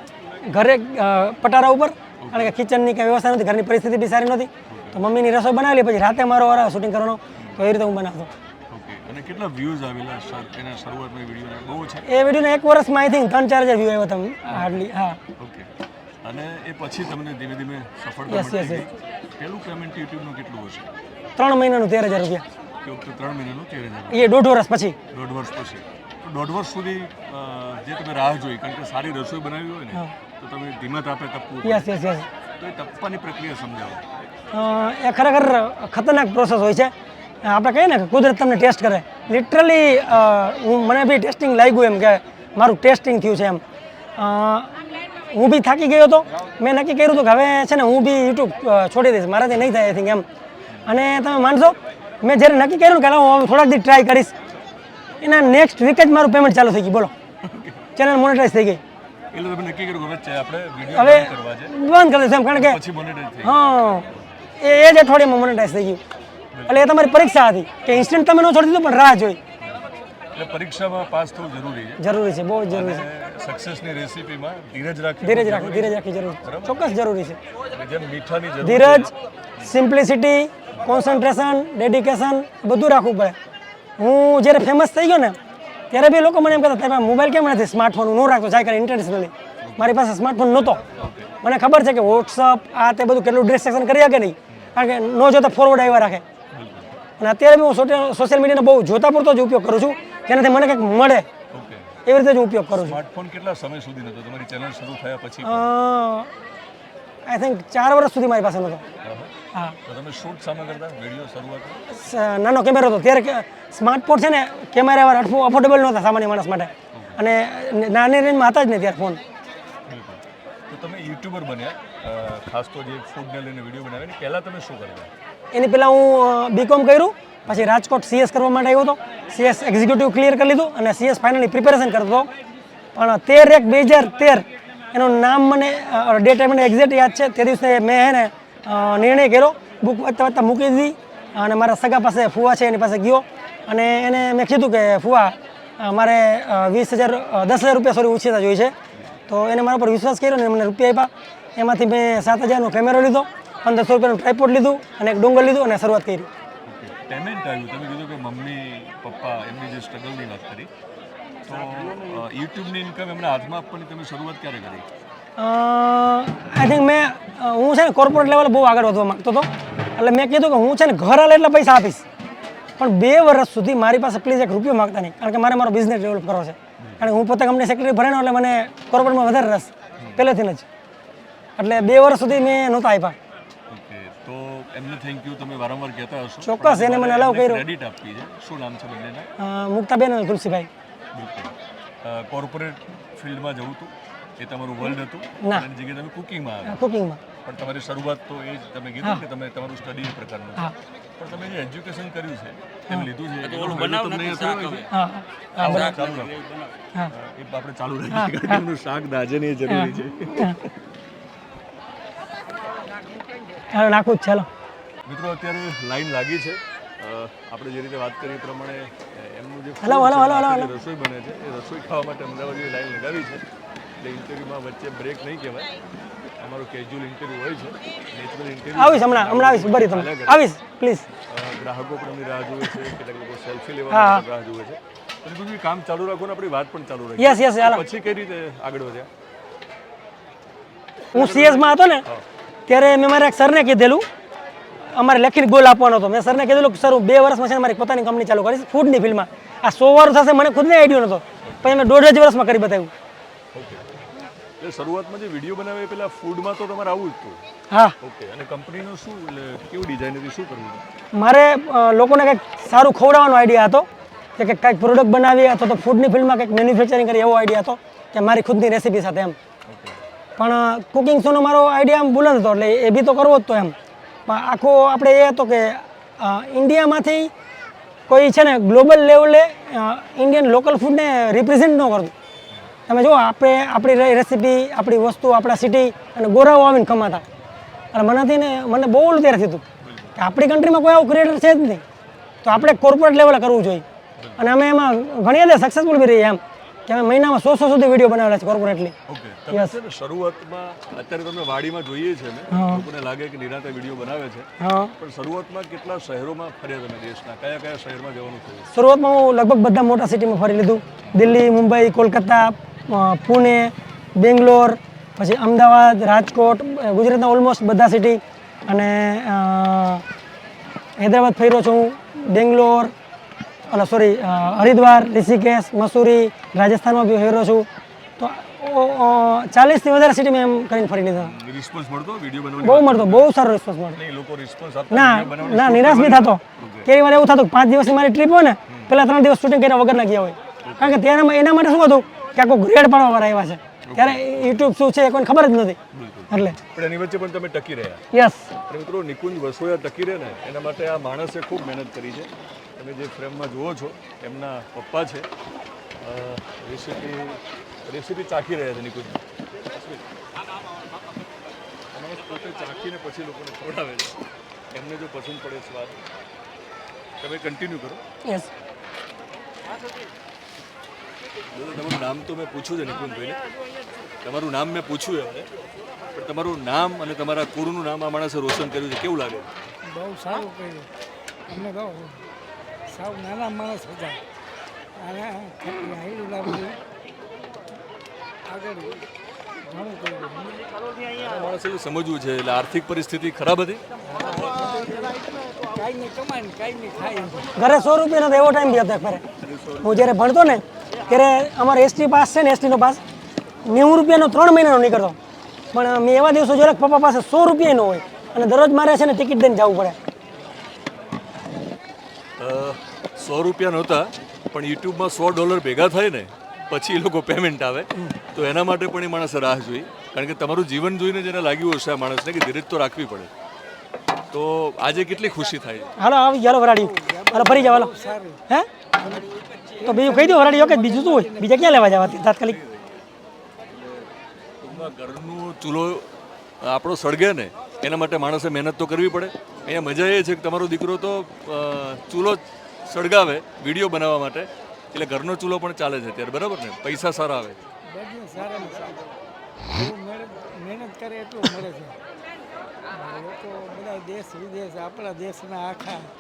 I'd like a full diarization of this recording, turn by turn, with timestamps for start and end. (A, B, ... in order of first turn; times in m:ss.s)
0:00.4-0:08.3 A
0:02.2-0:02.5 B
0:04.7-0:05.0 B
0:07.4-0:07.6 B
0:08.7-0:12.1 B
0:12.1-0:15.2 A
0:14.5-0:14.8 B
0:15.4-0:15.7 B
0:16.2-0:20.9 B
0:18.3-0:18.9 A
0:21.4-0:22.4 A
0:22.8-0:24.4 B
0:24.1-0:25.0 A
0:25.1-0:31.9 B
0:31.6-0:32.3 A
0:32.6-0:34.0 B
0:34.5-0:36.9 A
0:37.4-0:43.6 A
0:44.2-0:50.2 A
0:50.9-0:54.3 A
0:55.2-0:57.1 A
0:57.4-0:57.9 B
0:58.0-0:58.8 A
0:59.3-1:01.8 B
1:00.9-1:02.8 A
1:02.5-1:03.6 B
1:03.4-1:04.1 A
1:04.6-1:06.0 A
1:06.5-1:06.9 B
1:06.7-1:09.4 A
1:10.3-1:12.0 B
1:12.0-1:13.0 A
1:12.7-1:17.0 B
1:15.2-1:17.4 A
1:17.7-1:19.8 B
1:18.6-1:23.4 A
1:24.0-1:25.4 A
1:25.9-1:30.8 A
1:29.6-1:30.0 B
1:31.0-1:31.3 B
1:31.4-1:36.2 A
1:36.5-1:37.0 B
1:37.2-1:41.3 A
1:41.5-1:41.9 B
1:42.0-1:43.0 A
1:42.7-1:45.7 B
1:45.4-1:46.3 A
1:47.3-1:48.8 A
1:49.0-1:49.3 B
1:49.8-1:51.8 B
1:51.9-1:59.2 A
1:56.9-1:57.2 B
1:59.9-2:05.1 B
2:05.5-2:12.3 A
2:07.4-2:07.7 B
2:13.0-2:28.7 A
2:29.3-2:36.3 A
2:36.7-2:40.7 B
2:41.4-2:44.9 B
2:45.4-2:52.0 A
2:52.8-3:00.7 A
2:56.8-2:57.1 B
3:00.0-3:00.3 B
3:01.6-3:03.2 A
3:03.7-3:09.3 B
3:06.4-3:07.6 A
3:09.4-3:10.7 A
3:11.1-3:16.8 B
3:16.7-3:17.2 A
3:17.4-3:24.9 B
3:23.6-3:24.8 C
3:24.9-3:26.0 A
3:25.6-3:30.7 B
3:25.8-3:26.8 C
3:28.1-3:28.6 A
3:29.7-3:30.6 A
3:33.7-3:34.5 A
3:35.1-3:43.4 B
3:39.8-3:40.7 A
3:44.0-3:45.7 B
3:46.4-3:50.4 B
3:48.7-3:51.0 A
3:51.1-3:59.1 B
3:53.9-3:54.2 A
3:57.2-3:57.8 A
4:01.1-4:02.0 A
4:01.1-4:02.2 B
4:02.7-4:04.0 A
4:04.8-4:12.9 A
4:11.4-4:11.7 B
4:13.5-4:13.8 B
4:14.6-4:17.4 B
4:17.7-4:18.0 A
4:18.0-4:20.8 B
4:21.1-4:29.4 A
4:29.7-4:30.0 B
4:30.4-4:33.8 A
4:34.3-4:37.3 A
4:38.1-4:42.1 A
4:42.9-4:47.2 A
4:47.9-4:49.6 A
4:49.8-4:50.2 B
4:50.2-4:51.8 A
4:52.4-4:53.8 A
4:52.5-4:52.8 B
4:54.2-4:54.5 B
4:54.4-4:59.0 A
4:59.1-5:08.7 B
5:02.5-5:02.8 A
5:04.6-5:04.9 A
5:08.7-5:20.0 A
5:21.0-5:22.9 A
5:23.7-5:27.7 A
5:28.2-5:31.4 A
5:31.2-5:33.3 B
5:32.6-5:34.0 A
5:33.9-5:36.9 B
5:34.9-5:45.8 A
5:38.7-5:39.0 B
5:40.6-5:41.0 B
5:43.8-5:44.7 B
5:45.9-5:48.0 B
5:46.3-5:46.6 A
5:48.1-5:48.5 A
5:48.7-5:55.3 B
5:56.0-6:00.0 B
6:01.9-6:04.2 B
6:04.7-6:06.0 B
6:07.2-6:08.0 B
6:08.2-6:08.5 A
6:11.5-6:13.4 B
6:14.2-6:15.5 B
6:16.1-6:19.5 B
6:19.8-6:20.9 C
6:21.5-6:22.3 C
6:22.9-6:24.2 C
6:25.0-6:26.8 C
6:28.5-6:29.1 C
6:29.7-6:30.7 C
6:31.2-6:33.8 B
6:34.0-6:37.5 C
6:37.6-6:39.2 A
6:39.4-6:40.0 B
6:39.8-6:43.0 A
6:43.6-6:45.2 A
6:45.7-6:50.0 A
6:52.4-7:03.3 B
7:04.3-7:06.0 B
7:06.0-7:07.9 A
7:06.8-7:08.4 C
7:09.0-7:12.2 C
7:09.8-7:12.6 A
7:12.4-7:13.0 B
7:13.7-7:27.6 B
7:27.9-7:29.1 C
7:29.7-7:32.0 C
7:32.9-7:36.1 C